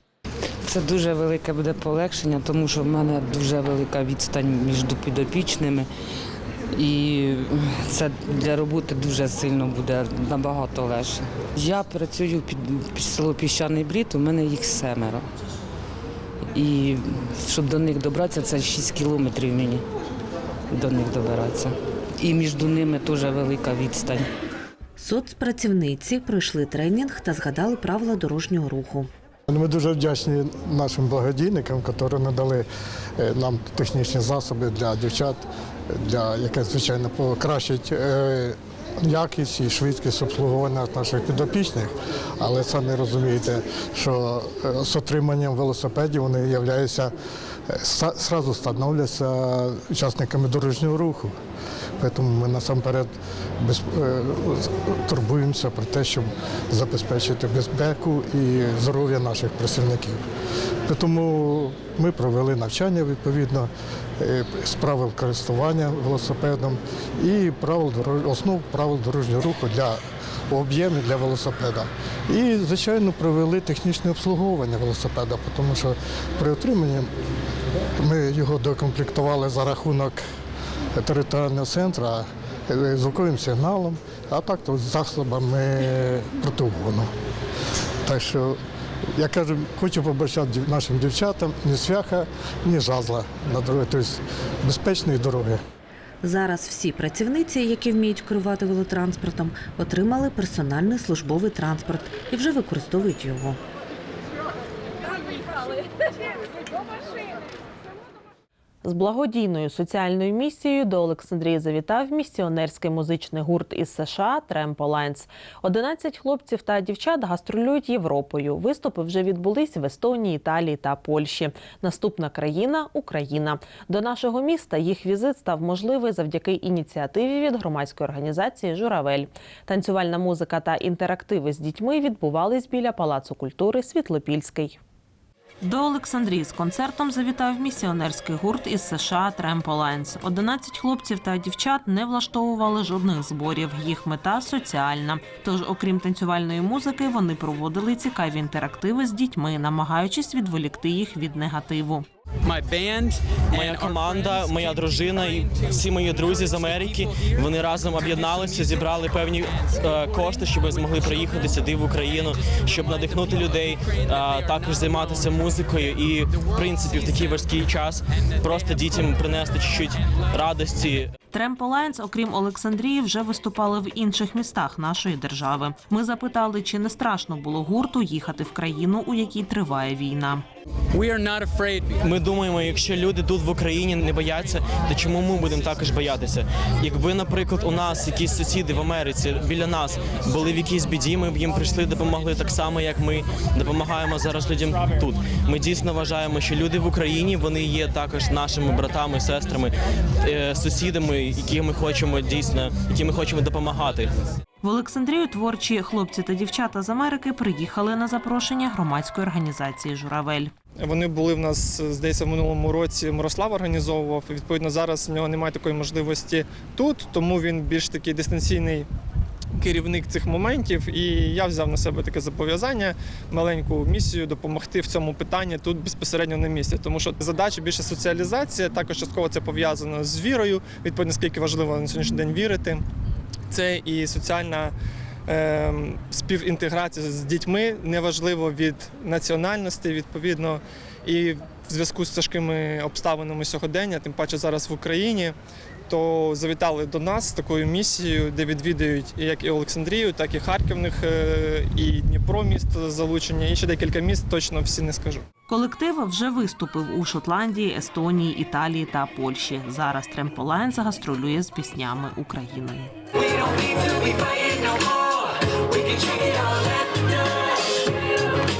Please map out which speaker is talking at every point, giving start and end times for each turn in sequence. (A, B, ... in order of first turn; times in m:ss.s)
0:00.6-0:05.8 A
0:06.8-0:15.2 A
0:16.5-0:19.8 A
0:20.7-0:24.2 A
0:25.0-0:29.1 B
0:29.5-0:32.7 C
0:33.2-0:47.1 C
0:47.7-0:51.4 C
0:52.0-1:00.2 C
1:00.8-1:17.1 C
1:18.0-1:20.2 C
1:20.9-1:27.1 C
1:28.0-1:28.6 C
1:29.2-1:35.6 C
1:36.2-1:43.6 B
1:48.8-2:14.8 D
2:15.6-2:32.1 D
2:33.5-2:51.1 E
2:51.3-3:00.4 D
3:02.0-3:24.1 E
3:24.6-3:30.5 D
3:30.8-3:38.9 F
3:39.6-3:52.8 F
3:53.5-3:54.7 F
3:55.3-4:05.3 F
4:05.9-4:15.2 F
4:15.5-4:22.9 D